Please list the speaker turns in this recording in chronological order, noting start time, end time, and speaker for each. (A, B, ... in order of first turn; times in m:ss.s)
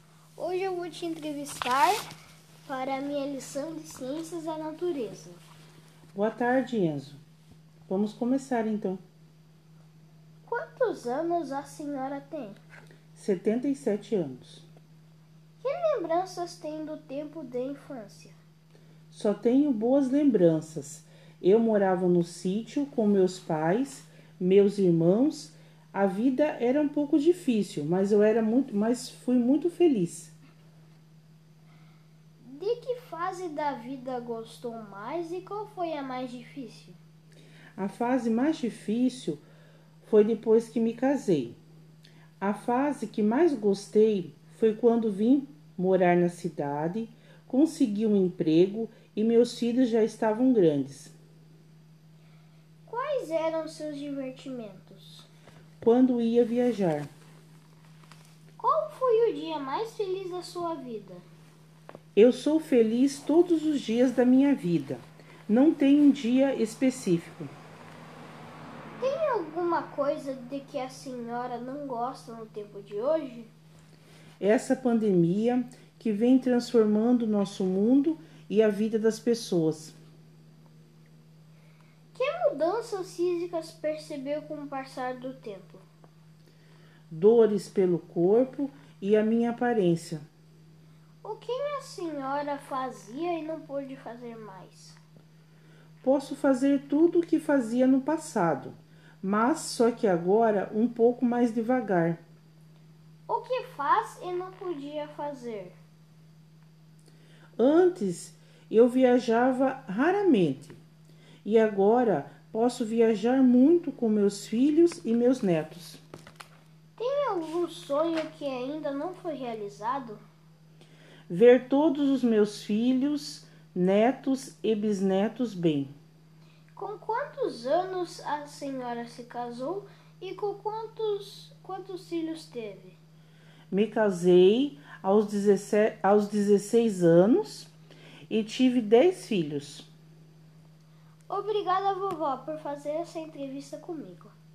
0:00.4-0:02.0 A
0:02.6-0:05.4 A
0:06.1-0:07.2 B
0:07.9-0:09.0 B
0:10.5-0:12.6 A
0:13.2-0:14.6 B
0:15.6-0:18.4 A
0:19.1-0:30.3 B
0:32.4-0:37.0 A
0:37.8-0:39.4 B
0:40.0-0:41.6 B
0:42.4-0:51.1 B
0:52.8-0:55.3 A
0:55.8-0:57.1 B
0:58.6-1:01.3 A
1:02.2-1:07.5 B
1:09.0-1:13.5 A
1:14.4-1:20.0 B
1:22.1-1:25.8 A
1:27.1-1:30.2 B
1:31.2-1:35.0 A
1:36.0-1:42.2 B
1:43.3-1:45.8 A
1:47.6-1:50.8 B
1:51.4-1:56.0 B
1:57.0-2:00.2 A
2:01.3-2:05.9 B
2:06.8-2:13.0 A
2:13.7-2:17.7 B
2:18.3-2:19.9 B
2:21.3-2:24.3 A